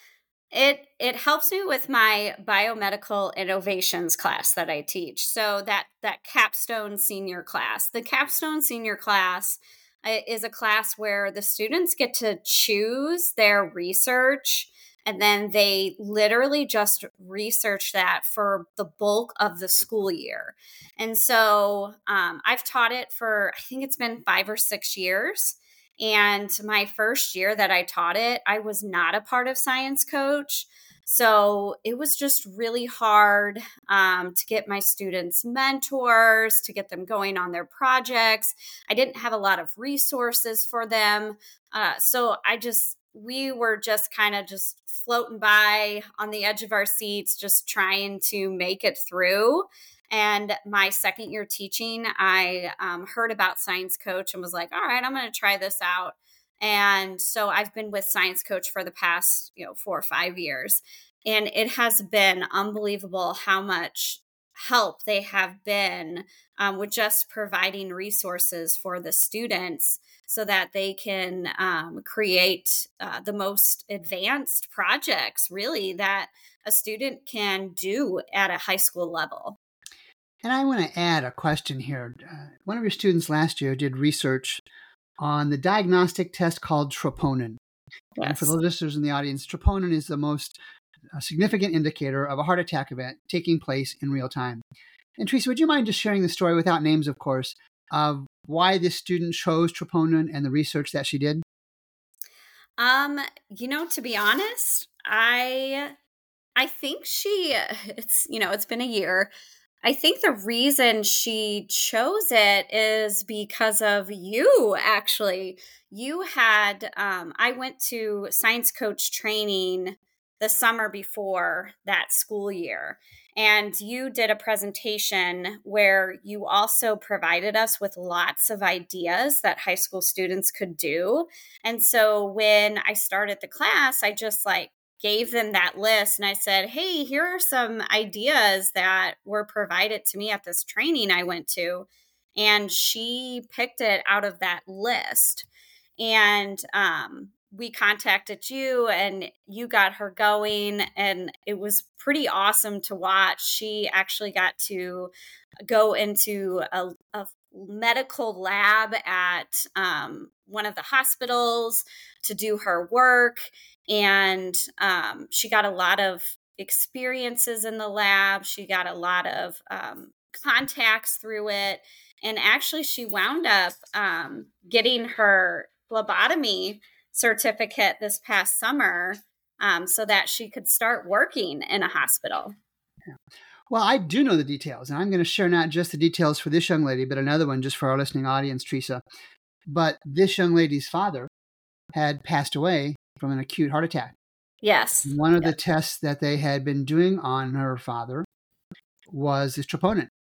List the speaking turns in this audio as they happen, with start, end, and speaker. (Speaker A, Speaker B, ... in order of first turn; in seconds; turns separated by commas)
Speaker A: 0.5-79.6, Speaker B: 80.4-84.6, Speaker B: 85.2-87.6, Speaker A: 88.2-88.5, Speaker B: 88.2-90.5, Speaker B: 91.2-94.6, Speaker B: 95.2-101.4, Speaker A: 102.8-105.9, Speaker A: 106.6-109.3, Speaker A: 109.8-145.5, Speaker A: 146.0-155.1, Speaker A: 155.7-182.6, Speaker B: 183.7-189.0, Speaker B: 189.7-191.3, Speaker B: 191.9-194.1, Speaker A: 194.6-195.5, Speaker B: 195.0-198.2, Speaker B: 199.1-200.1